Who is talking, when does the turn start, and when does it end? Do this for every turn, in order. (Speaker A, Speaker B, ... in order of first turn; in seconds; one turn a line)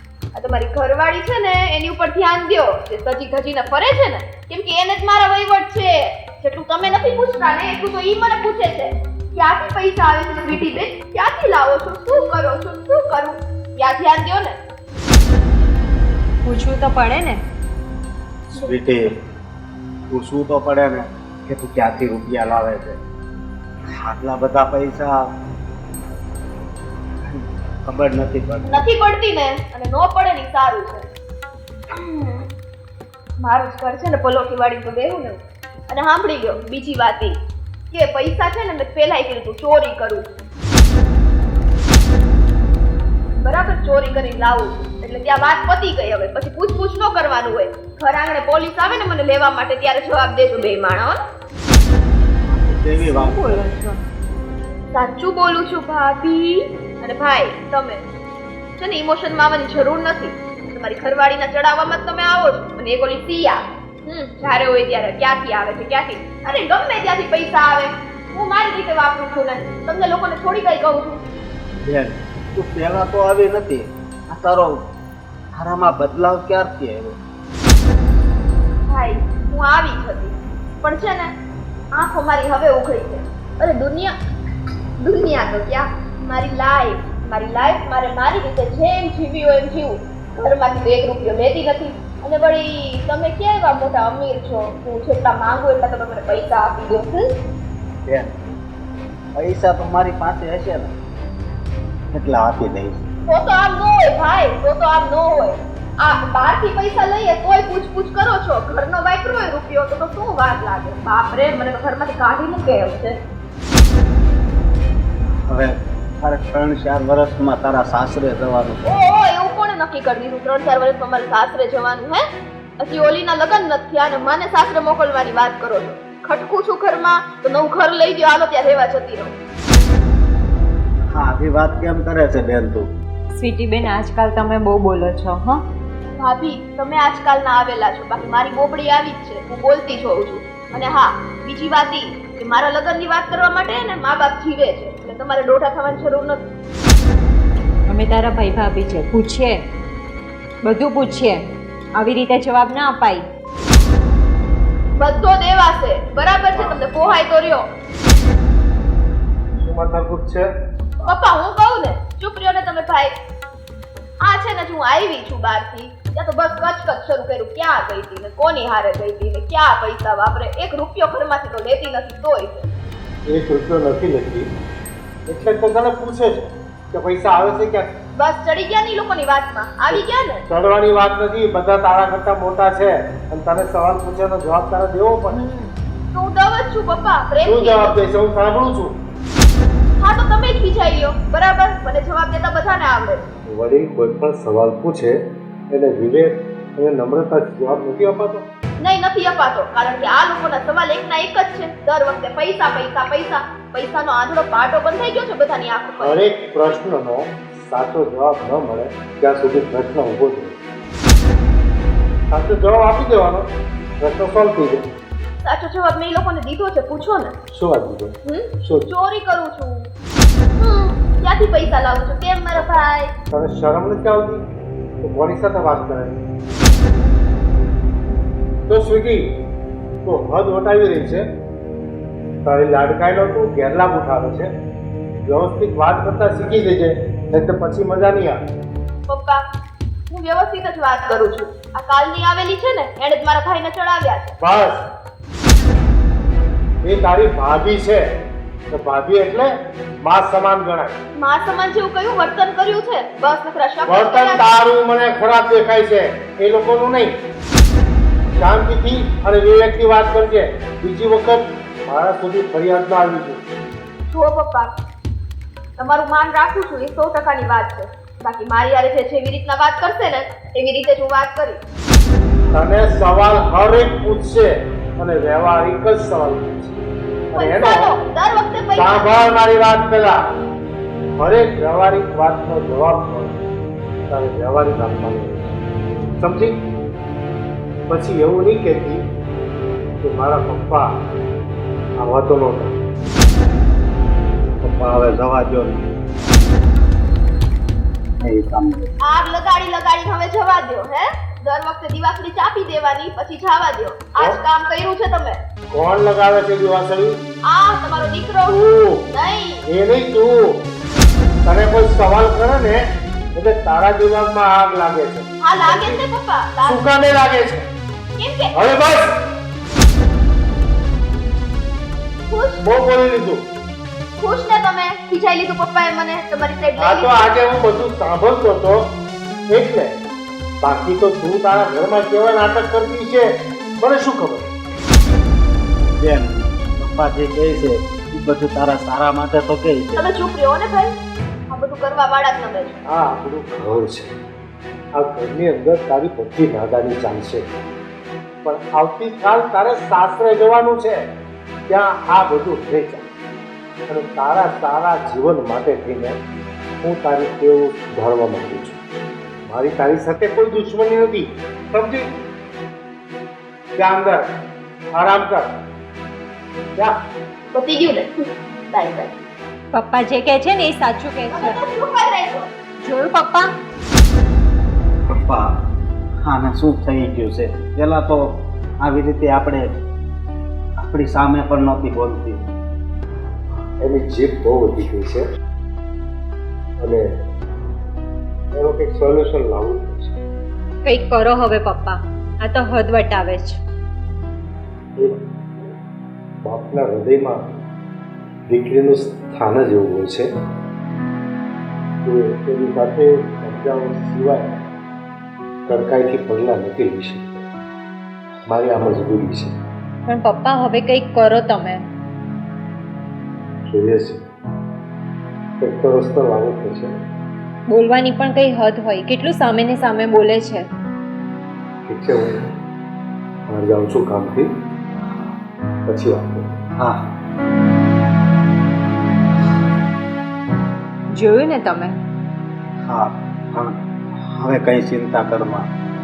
Speaker A: 0.3-14.5
Speaker B: 16.4-17.4
Speaker C: 18.5-19.1
Speaker C: 20.1-23.0
Speaker C: 24.0-25.3
Speaker C: 27.3-28.9
Speaker A: 28.6-31.1
Speaker A: 31.9-32.5
Speaker A: 33.4-37.3
Speaker A: 37.9-40.3
Speaker A: 43.4-51.2
Speaker C: 52.4-53.6
Speaker B: 53.0-54.0
Speaker A: 54.9-58.0
Speaker A: 58.8-71.2
Speaker C: 71.8-74.9
Speaker C: 75.5-77.2
Speaker A: 78.9-81.3
Speaker A: 81.9-84.1
Speaker A: 85.0-97.3
Speaker C: 98.0-98.4
Speaker C: 99.3-100.9
Speaker C: 102.1-103.1
Speaker A: 103.3-113.2
Speaker C: 115.4-118.8
Speaker A: 118.8-122.2
Speaker A: 122.8-129.3
Speaker C: 131.1-132.9
Speaker B: 133.3-135.6
Speaker A: 136.2-146.4
Speaker B: 147.9-149.6
Speaker B: 150.6-151.4
Speaker B: 151.9-153.2
Speaker A: 155.0-157.6
Speaker D: 156.5-157.2
Speaker D: 159.6-160.4
Speaker A: 161.0-163.1
Speaker A: 164.2-172.7
Speaker D: 173.3-174.5
Speaker D: 175.3-177.9
Speaker A: 178.2-180.4
Speaker D: 179.9-185.6
Speaker A: 186.1-188.0
Speaker D: 187.4-188.9
Speaker A: 190.0-193.2
Speaker D: 193.5-195.2
Speaker D: 195.7-198.4
Speaker A: 198.8-206.2
Speaker D: 206.0-210.6
Speaker D: 212.3-213.5
Speaker D: 214.0-214.8
Speaker A: 215.4-217.3
Speaker D: 217.5-218.9
Speaker A: 218.2-219.9
Speaker A: 220.6-223.1
Speaker D: 222.5-224.4
Speaker D: 225.0-226.2
Speaker D: 228.7-229.2
Speaker D: 230.0-231.2
Speaker D: 232.4-234.5
Speaker D: 235.2-238.4
Speaker A: 239.1-239.4
Speaker A: 240.1-244.4
Speaker D: 244.4-244.8
Speaker D: 246.8-248.0
Speaker D: 248.7-250.9
Speaker A: 251.2-254.6
Speaker D: 253.9-257.1
Speaker D: 258.4-263.4
Speaker A: 264.1-264.7
Speaker A: 265.8-271.6
Speaker D: 272.5-276.8
Speaker D: 277.3-277.9
Speaker A: 277.3-279.1
Speaker D: 278.8-280.1
Speaker D: 281.1-283.4
Speaker D: 284.1-285.5
Speaker D: 286.2-286.5
Speaker D: 287.9-289.0
Speaker D: 290.0-290.9
Speaker D: 292.0-292.8
Speaker C: 294.6-296.0
Speaker C: 298.2-298.9
Speaker A: 299.0-305.4
Speaker D: 305.7-307.1
Speaker A: 307.4-309.6
Speaker D: 308.5-309.0
Speaker D: 309.7-310.4
Speaker D: 311.4-312.8
Speaker D: 313.3-316.0
Speaker A: 315.4-316.8
Speaker D: 316.6-317.6
Speaker A: 318.2-318.6
Speaker D: 318.5-319.1
Speaker A: 322.3-322.6
Speaker D: 322.6-323.4
Speaker A: 324.2-327.3
Speaker D: 326.8-328.8
Speaker D: 329.5-329.9
Speaker D: 330.6-333.2
Speaker D: 333.8-334.5
Speaker C: 335.9-340.1
Speaker A: 340.0-340.9
Speaker A: 341.5-342.8
Speaker D: 342.9-344.1
Speaker D: 344.9-347.4
Speaker D: 348.4-351.0
Speaker D: 351.7-353.0
Speaker D: 353.9-356.2
Speaker D: 356.8-358.8
Speaker D: 359.5-362.1
Speaker D: 363.8-364.2
Speaker D: 364.9-365.5
Speaker A: 367.5-368.1
Speaker A: 368.7-369.1
Speaker B: 369.7-371.6
Speaker A: 371.3-372.5
Speaker B: 372.8-373.5
Speaker C: 375.1-375.6
Speaker C: 376.2-379.7
Speaker C: 380.8-382.5
Speaker D: 383.8-385.2
Speaker D: 386.8-387.0
Speaker D: 388.5-390.2
Speaker B: 390.8-393.6
Speaker D: 396.4-397.4
Speaker D: 398.5-400.3
Speaker D: 402.0-404.4
Speaker D: 405.7-407.4
Speaker D: 408.5-409.5
Speaker B: 410.1-411.8
Speaker D: 413.7-414.2
Speaker D: 415.6-416.9
Speaker B: 417.7-420.6
Speaker D: 421.9-422.4
Speaker D: 423.5-424.5
Speaker D: 425.9-426.5
Speaker C: 426.8-427.0
Speaker B: 431.1-431.9
Speaker C: 432.8-435.7